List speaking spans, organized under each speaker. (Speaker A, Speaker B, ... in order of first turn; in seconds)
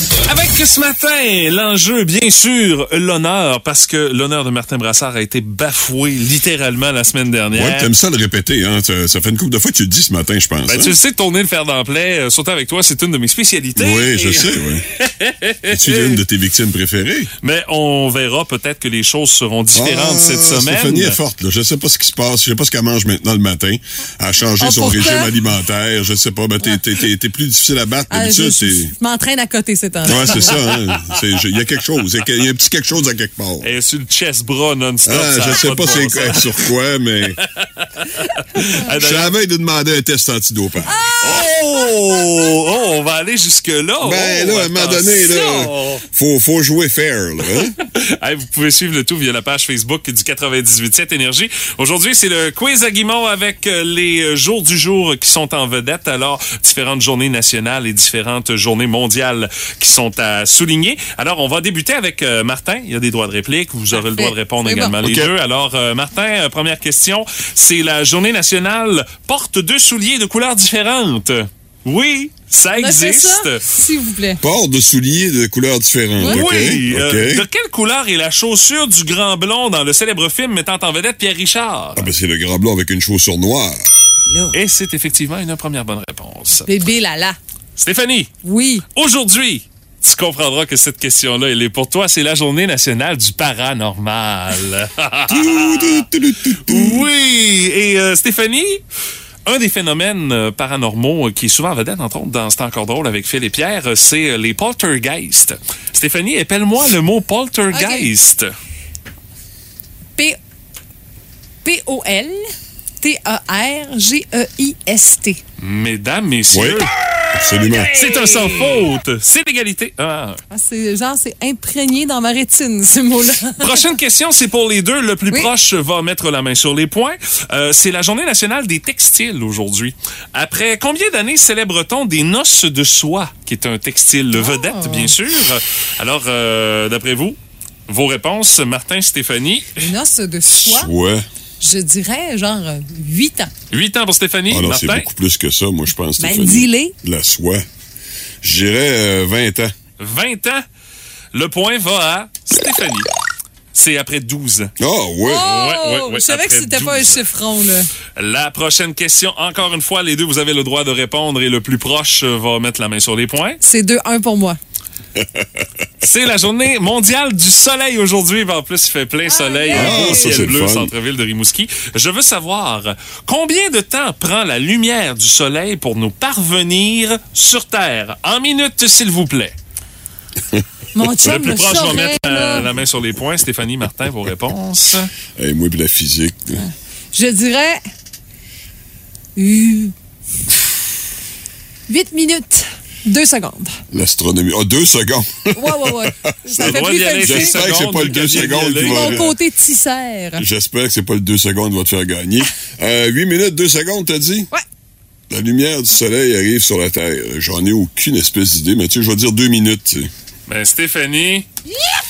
Speaker A: 0.2-7.9, 10.7-16.2, 17.4-21.2, 30.1-31.1, 33.6-36.7, 37.4-39.3, 41.2-46.0, 47.8-73.6, 76.2-82.1, 84.5-86.7, 87.8-88.3, 88.9-96.1, 96.6-98.8, 99.5-108.5, 115.6-116.9, 117.5-120.4, 123.6-137.4, 137.9-139.9, 143.7-145.1, 150.0-150.6, 151.3-153.1, 153.7-154.7, 155.3-157.2, 158.2-163.6, 166.0-179.5, 181.2-185.1, 196.6-199.3, 210.5-211.5
Speaker B: 7.5-10.9, 13.8-14.8, 15.7-17.3, 19.7-28.9, 30.0-33.7, 35.0-37.4, 38.9-40.9, 44.0-47.7, 65.0-65.3, 74.4-77.5, 82.0-83.8, 95.3-97.1, 116.5-118.0, 140.6-141.2, 144.5-147.6, 148.4-149.7, 154.8-155.5, 165.2-165.4, 169.7-170.9, 185.4-186.6, 193.9-199.3, 200.4-204.5, 205.3-210.1
Speaker C: 24.6-25.3, 28.1-30.6, 40.9-41.5, 63.9-64.9, 72.8-74.4, 76.2-76.8, 86.7-87.4, 88.4-88.8, 107.7-108.1, 111.6-115.4, 120.5-123.8, 134.3-135.1, 139.8-140.9, 141.6-143.5, 146.2-146.9, 155.2-157.9, 163.6-164.6, 169.3-170.5, 180.9-182.7, 186.6-187.8, 189.3-189.9, 191.9-193.8, 195.5-197.6, 198.8-200.4